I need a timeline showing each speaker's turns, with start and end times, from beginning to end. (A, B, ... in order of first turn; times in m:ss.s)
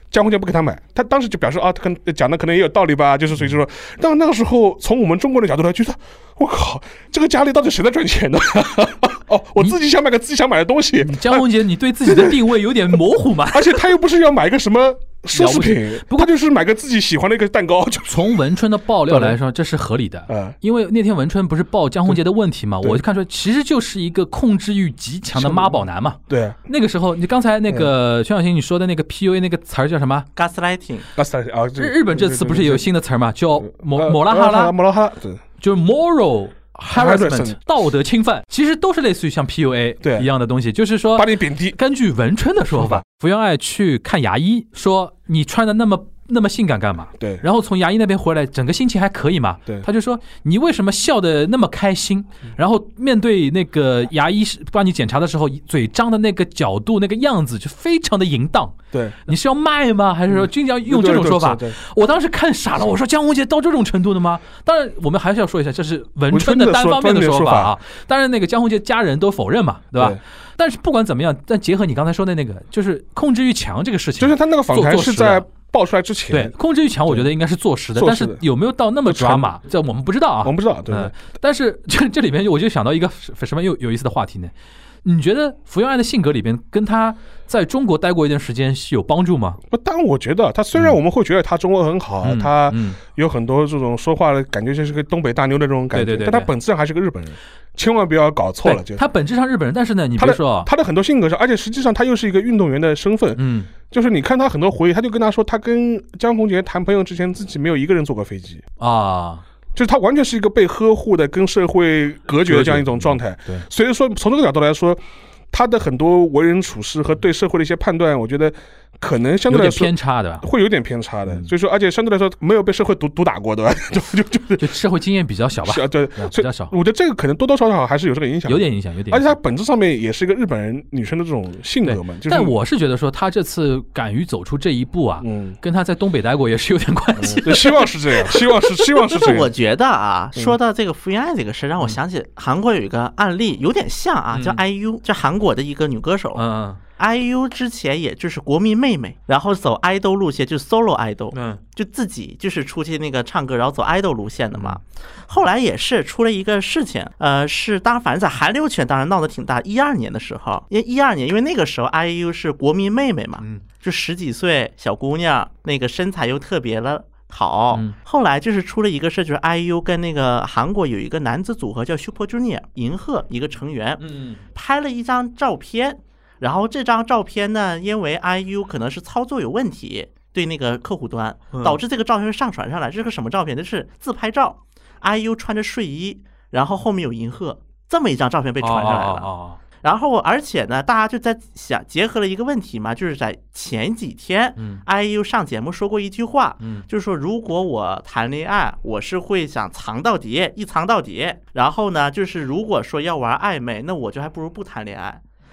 0:00.1-0:11.4 A
0:11.0-0:13.8 B
0:12.0-0:12.4 A
0:13.5-0:18.4 A
0:15.3-0:16.3 B
0:18.1-0:30.3 B
0:19.1-0:19.4 A
0:20.3-0:20.5 A
0:25.3-0:26.6 A
0:30.4-0:31.1 C
0:31.2-0:32.8 A
0:31.8-0:34.7 B
0:33.8-0:35.4 A
0:35.6-0:58.8 B
0:36.9-0:37.6 A
0:40.0-0:40.3 A
0:41.1-0:41.8 A
0:42.7-0:43.0 A
0:47.2-0:47.4 A
0:58.9-0:59.2 A
0:59.3-1:15.4 B
1:00.3-1:01.8 A
1:06.3-1:07.7 A
1:09.9-1:10.2 A
1:14.2-1:16.5 A
1:16.3-1:24.5 B
1:18.0-1:18.4 A
1:19.0-1:19.5 A
1:20.4-1:21.1 A
1:25.0-1:29.6 B
1:29.7-1:39.0 A
1:32.2-1:33.0 B
1:35.9-1:36.5 B
1:38.6-1:40.7 B
1:40.2-1:48.6 A
1:43.4-1:43.7 B
1:48.8-1:49.4 B
1:49.7-1:55.0 A
1:52.4-1:53.6 B
1:55.5-2:04.7 A
1:59.5-2:00.4 B
2:04.6-2:06.7 B
2:05.6-2:12.5 A
2:08.4-2:09.3 B
2:11.8-2:18.4 B
2:15.2-2:15.6 A
2:17.2-2:19.5 A
2:19.0-2:26.4 C
2:24.3-2:24.6 B
2:26.3-2:26.8 B
2:27.0-3:09.3 C
2:31.3-2:31.6 B
2:54.0-2:54.4 B
3:01.5-3:01.8 B
3:08.6-3:09.6 B
3:09.8-3:25.2 C